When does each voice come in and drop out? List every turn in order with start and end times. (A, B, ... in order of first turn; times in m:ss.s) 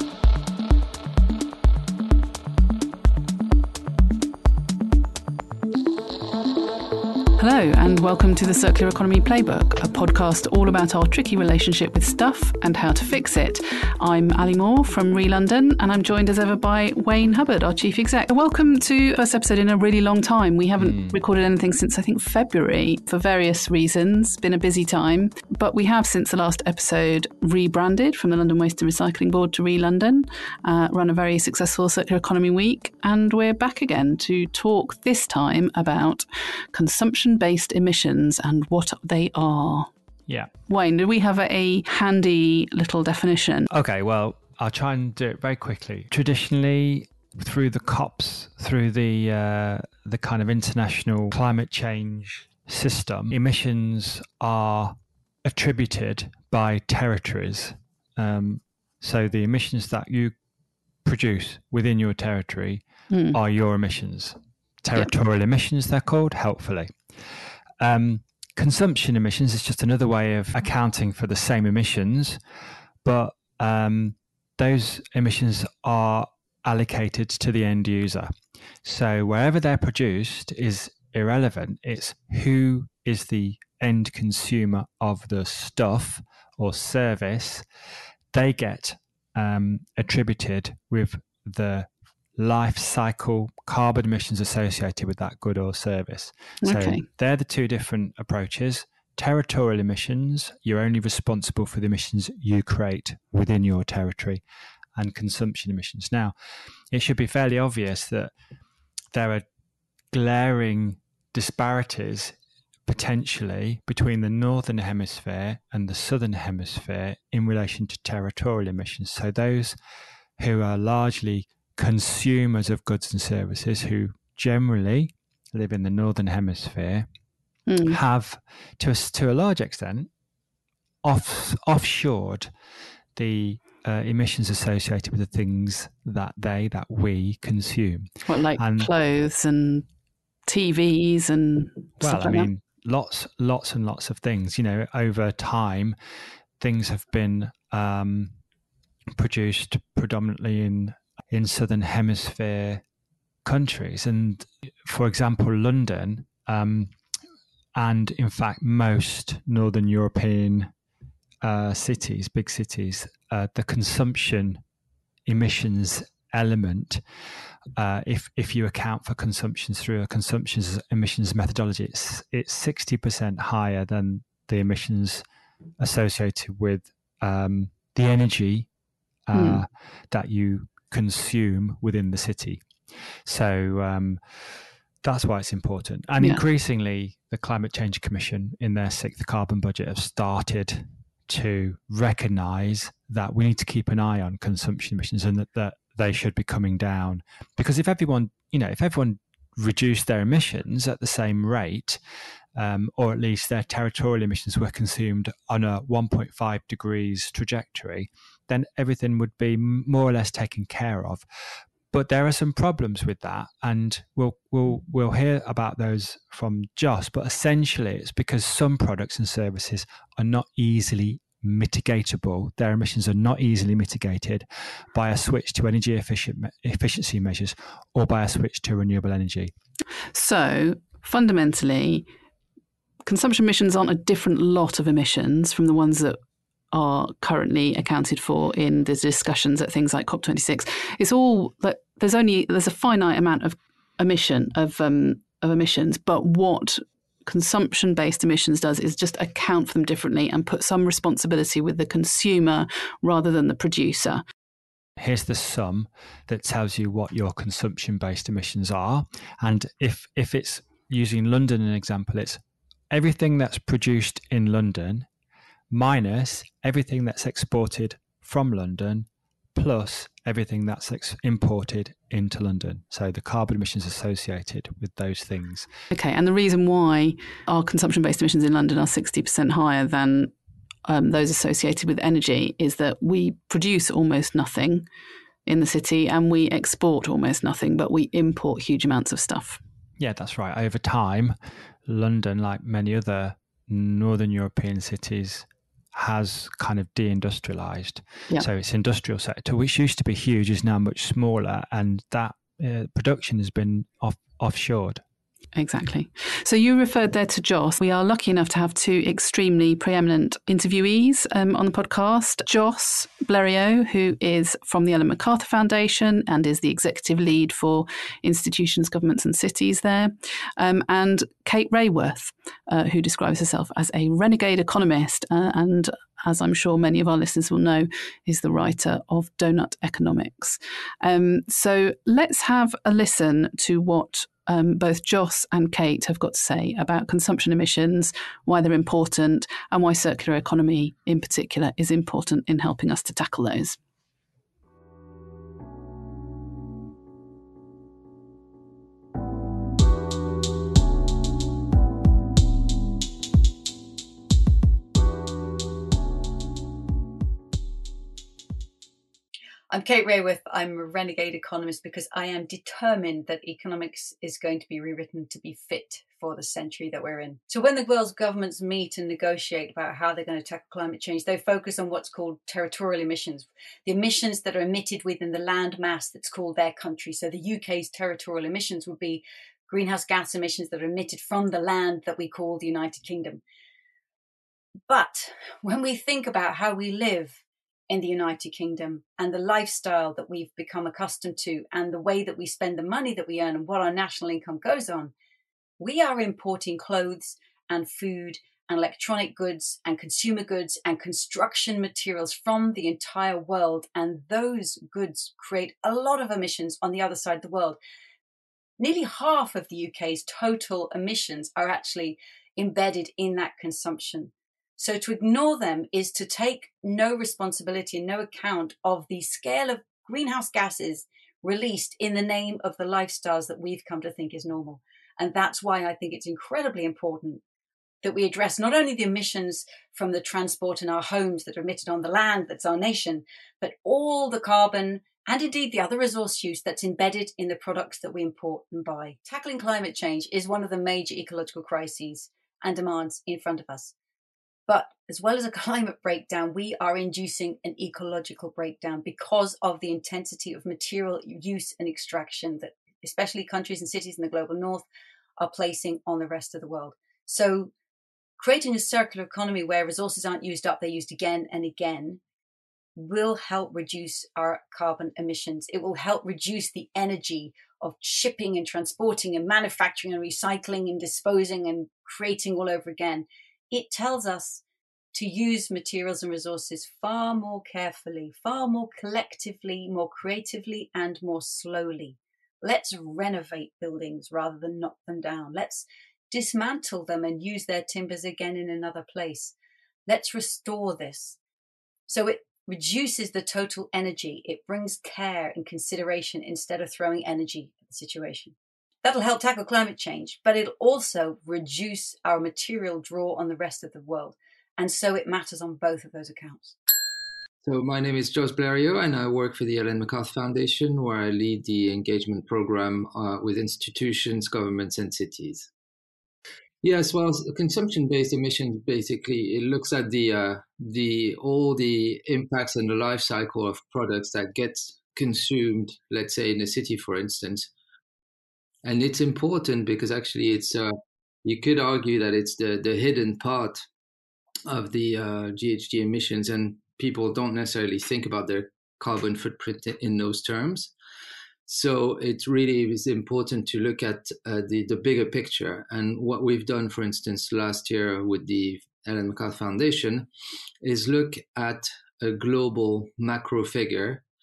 0:07.4-0:39.9 A
0:20.8-0:21.2 B
0:40.7-0:43.7 A
0:43.7-1:00.3 B
1:01.0-1:07.0 B
1:03.1-1:03.4 A
1:07.8-1:12.4 B
1:13.0-1:18.3 B
1:18.8-1:27.6 B
1:28.3-1:44.4 B
1:36.6-1:37.0 A
1:45.0-1:46.3 B
1:46.9-1:48.3 B
1:49.1-1:49.5 B
1:50.1-1:59.8 B
2:00.4-2:07.1 B
2:07.7-2:08.0 A
2:07.9-2:10.1 B
2:11.0-2:12.5 B
2:13.2-2:18.9 B
2:18.3-2:19.8 A
2:20.5-2:22.5 A
2:22.0-2:26.0 B
2:26.6-2:28.4 B
2:29.2-2:32.8 B
2:33.4-2:36.9 B
2:37.8-2:40.7 B
2:41.4-2:44.6 B
2:45.3-2:47.0 B
2:47.8-2:55.2 B
2:55.8-2:58.7 B
2:59.3-3:02.6 B
2:59.3-2:59.6 A
3:03.2-3:22.0 B
3:22.6-3:31.2 B
3:31.9-3:49.5 B
3:50.1-3:52.1 A
3:53.0-3:56.2 A
3:56.7-4:14.2 A
4:15.0-4:22.4 B
4:22.9-4:25.1 B
4:25.7-4:35.7 B
4:35.9-4:40.3 A
4:40.9-4:44.9 A
4:45.5-4:49.6 A
4:50.0-4:51.4 B
4:51.9-5:05.0 B
5:05.6-5:43.8 A
5:59.7-6:23.4 C
6:24.9-6:35.1 C
6:35.8-6:47.8 C
6:48.8-7:07.4 C
7:08.0-7:23.9 C
7:24.7-7:34.9 C
7:35.4-7:37.7 C
7:38.4-7:42.2 C
7:43.0-8:09.5 C
8:10.1-8:11.4 C
8:12.1-8:26.8 C
8:27.6-8:35.7 D
8:36.8-8:47.7 D
8:48.8-8:50.9 D
8:51.4-8:53.8 D
8:54.7-9:00.9 D
9:01.7-9:10.3 D
9:10.8-9:14.2 D